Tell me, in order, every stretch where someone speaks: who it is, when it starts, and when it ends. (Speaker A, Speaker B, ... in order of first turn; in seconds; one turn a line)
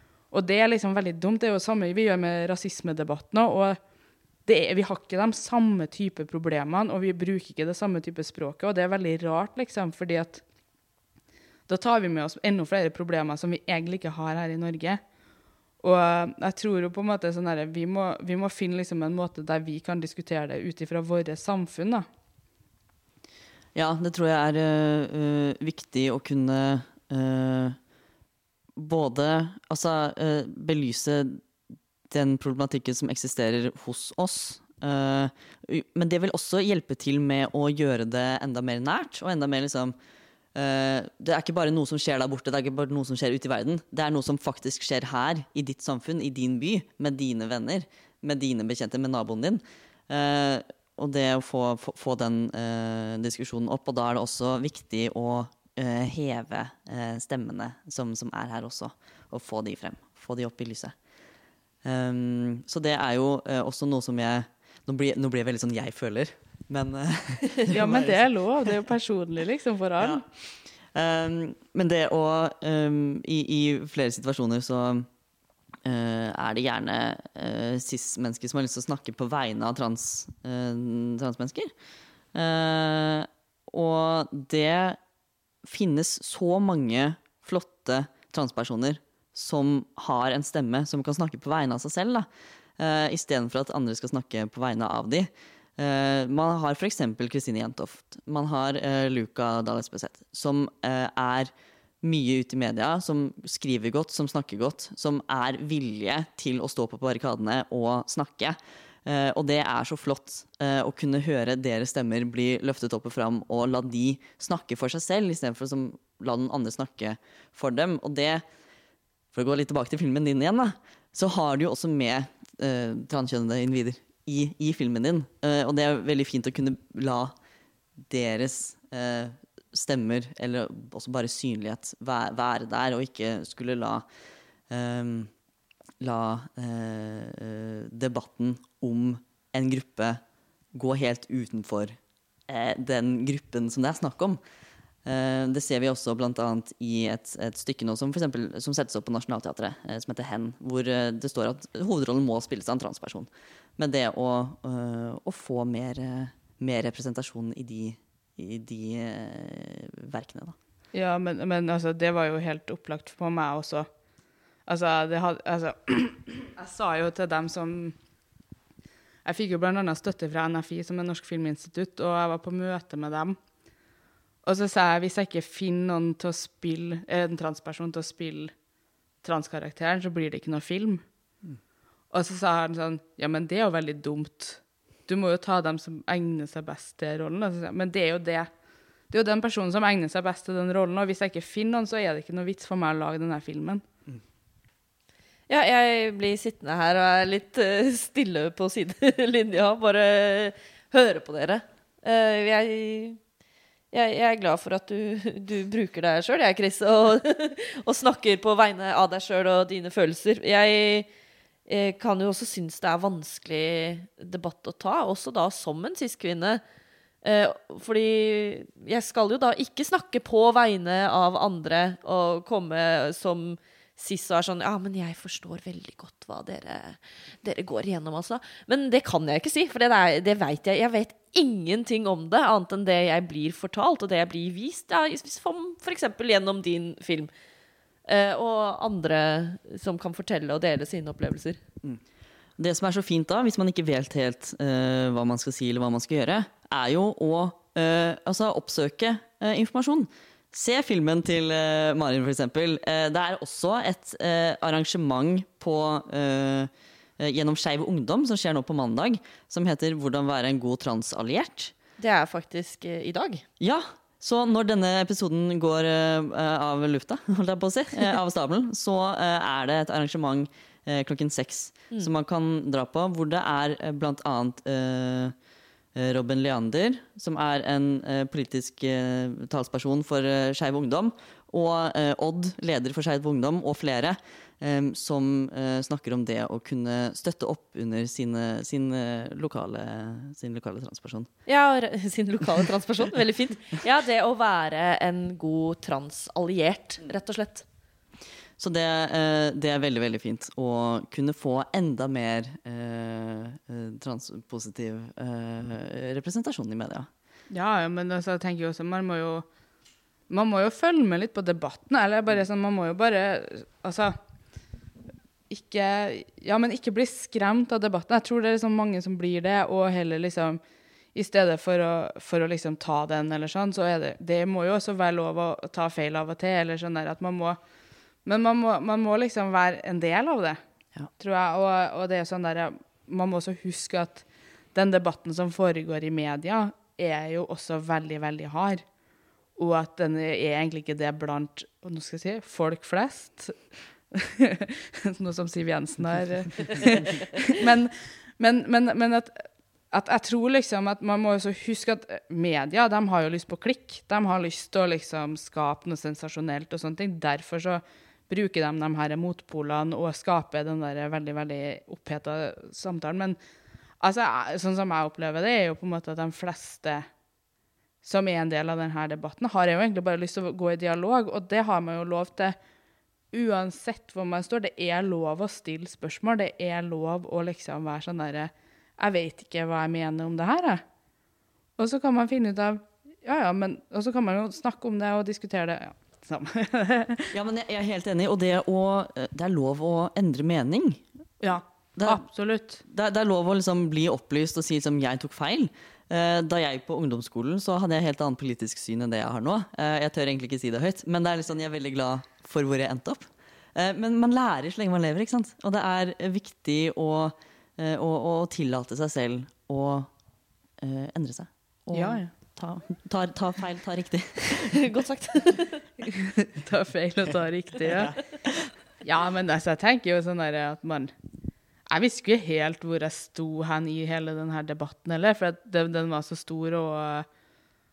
Speaker A: 0.3-3.8
Speaker A: 4.5-10.4
Speaker A: 11.7-15.0
Speaker A: 15.8-22.1
Speaker B: 23.8-27.8
Speaker B: 28.8-31.4
Speaker B: 32.1-40.0
Speaker B: 40.5-61.0
Speaker B: 61.8-68.2
Speaker A: 67.7-70.2
Speaker B: 70.0-70.2
Speaker B: 70.9-75.1
Speaker B: 75.8-81.7
Speaker B: 82.3-85.0
Speaker B: 85.6-118.4
Speaker B: 119.3-127.3
Speaker B: 128.1-134.1
Speaker B: 134.7-135.3
Speaker B: 136.0-140.2
Speaker B: 140.7-142.0
Speaker B: 142.5-144.4
Speaker B: 145.1-160.6
Speaker A: 160.9-163.9
Speaker A: 164.7-167.9
Speaker A: 169.2-173.4
Speaker A: 174.4-178.5
Speaker A: 179.2-181.0
Speaker A: 182.1-188.5
Speaker A: 189.1-193.8
Speaker C: 195.5-203.2
Speaker C: 203.9-211.1
Speaker C: 211.7-216.6
Speaker C: 217.2-237.3
Speaker C: 238.1-241.6
Speaker B: 242.6-261.7
Speaker C: 262.0-263.4
Speaker B: 263.6-275.4
Speaker B: 275.9-291.3
Speaker C: 291.5-297.6
Speaker B: 298.6-307.1
Speaker A: 307.5-309.5
Speaker A: 310.3-314.2
Speaker A: 315.5-320.6
Speaker A: 321.1-327.6
Speaker A: 328.2-330.6
Speaker A: 331.2-334.2
Speaker A: 334.8-338.8
Speaker A: 339.6-343.6
Speaker A: 344.1-363.4
Speaker A: 364.0-367.1
Speaker A: 368.0-372.6
Speaker A: 373.3-380.8
Speaker A: 381.8-387.3
Speaker B: 387.3-391.0
Speaker A: 391.4-392.8
Speaker B: 392.0-392.3
Speaker B: 392.9-410.1
Speaker B: 410.8-414.9
Speaker A: 411.9-412.3
Speaker C: 414.7-415.8
Speaker A: 416.2-418.1
Speaker B: 417.9-418.1
Speaker A: 419.0-421.1
Speaker A: 421.9-427.3